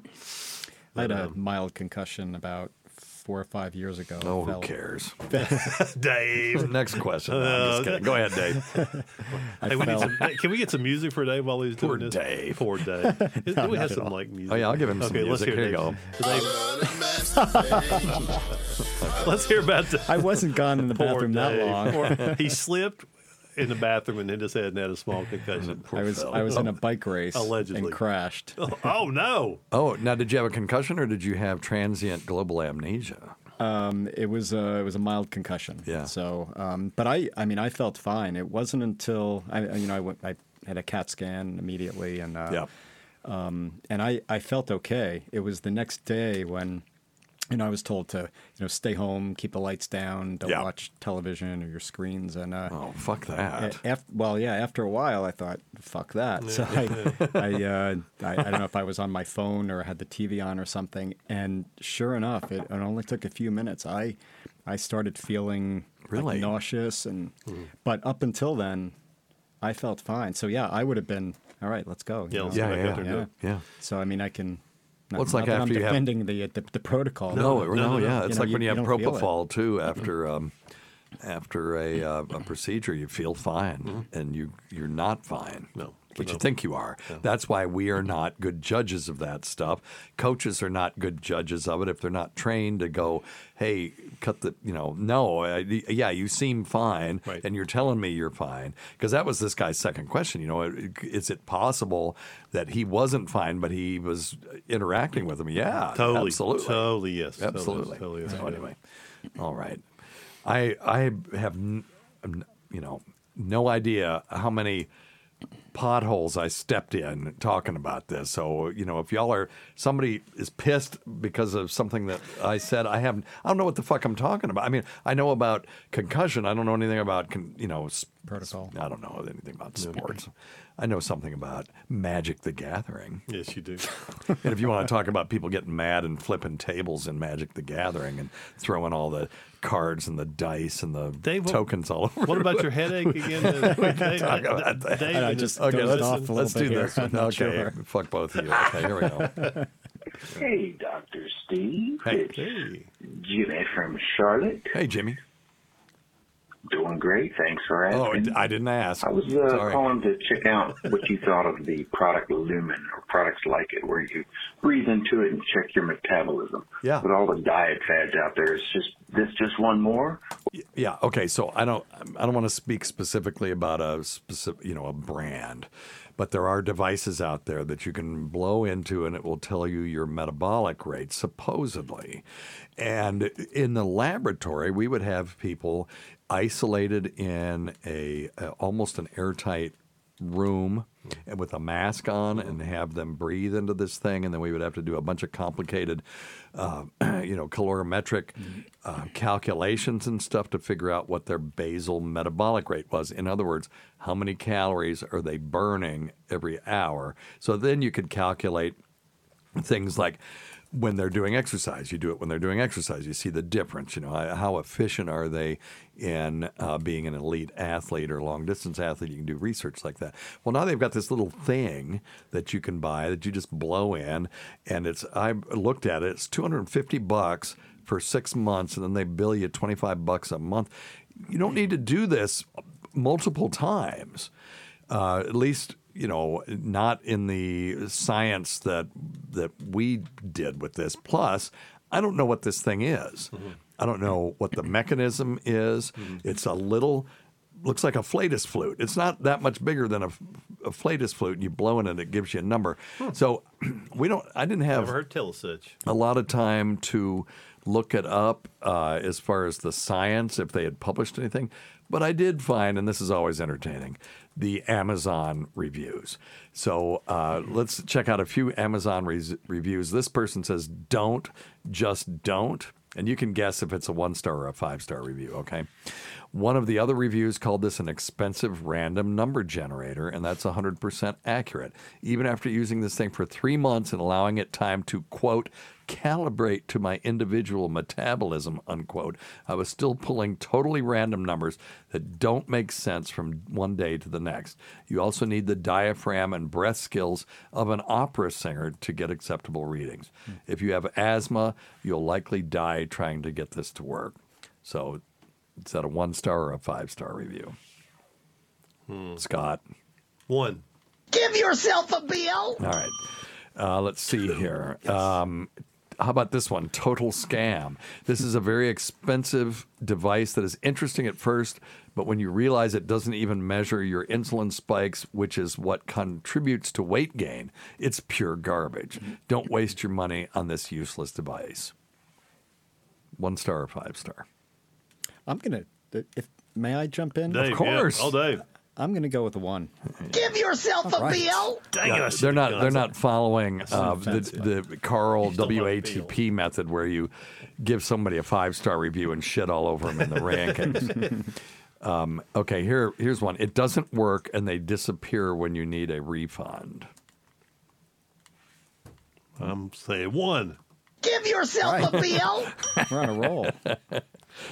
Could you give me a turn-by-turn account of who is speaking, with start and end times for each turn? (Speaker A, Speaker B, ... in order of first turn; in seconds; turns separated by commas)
Speaker A: 0.9-4.7, Speaker B: 0.9-1.3, Speaker C: 4.2-5.4, Speaker A: 5.3-5.6, Speaker B: 5.4-17.3, Speaker C: 6.5-8.7, Speaker A: 8.7-9.0, Speaker A: 9.6-10.3, Speaker C: 11.8-12.7, Speaker A: 13.1-14.1, Speaker C: 14.5-16.4, Speaker A: 17.3-18.2, Speaker B: 19.1-26.7, Speaker A: 20.1-22.4, Speaker C: 25.6-26.7, Speaker A: 25.9-28.6, Speaker B: 27.3-28.0, Speaker B: 28.6-29.6, Speaker C: 29.7-33.4, Speaker A: 33.6-42.6, Speaker C: 35.9-36.1, Speaker A: 43.2-46.8, Speaker A: 47.5-52.8, Speaker C: 52.7-53.8, Speaker A: 53.6-69.0, Speaker B: 56.4-57.2, Speaker C: 56.7-57.6, Speaker C: 66.1-66.6, Speaker A: 69.6-79.3, Speaker B: 72.3-73.2, Speaker C: 72.5-73.6, Speaker C: 75.1-76.1, Speaker C: 77.3-80.5, Speaker B: 77.3-78.2, Speaker C: 81.2-108.8, Speaker B: 85.8-86.5, Speaker B: 105.9-108.7, Speaker C: 109.4-109.9, Speaker C: 110.4-114.9, Speaker C: 115.7-133.2, Speaker A: 128.3-128.7, Speaker B: 133.3-133.9, Speaker C: 134.3-149.4, Speaker B: 141.2-141.6, Speaker B: 142.2-146.3, Speaker A: 145.1-147.7, Speaker A: 148.6-149.7, Speaker D: 150.3-152.4, Speaker C: 152.0-152.3, Speaker B: 152.4-152.9, Speaker D: 153.0-154.7, Speaker C: 154.7-155.2, Speaker D: 156.7-158.4, Speaker C: 157.9-159.9, Speaker D: 159.0-170.2, Speaker C: 170.5-182.2, Speaker C: 182.8-208.8, Speaker C: 209.6-234.3, Speaker C: 234.9-255.0, Speaker B: 254.7-255.8, Speaker C: 255.8-305.0, Speaker C: 305.6-307.6, Speaker B: 308.9-309.2, Speaker C: 309.2-309.6, Speaker B: 310.3-310.6, Speaker E: 311.1-312.6, Speaker C: 312.6-331.7, Speaker C: 333.2-334.3, Speaker A: 335.3-337.5, Speaker B: 337.3-338.4, Speaker C: 337.4-338.2, Speaker A: 338.8-339.7, Speaker E: 340.1-341.6, Speaker A: 340.9-341.5, Speaker B: 341.7-342.9, Speaker C: 341.8-351.3, Speaker A: 343.8-344.5, Speaker B: 343.8-344.3, Speaker B: 345.2-346.1, Speaker B: 350.0-351.0, Speaker C: 351.8-356.9, Speaker B: 359.4-360.6, Speaker E: 361.0-362.5, Speaker A: 361.6-362.0, Speaker C: 362.0-364.0, Speaker A: 362.9-363.6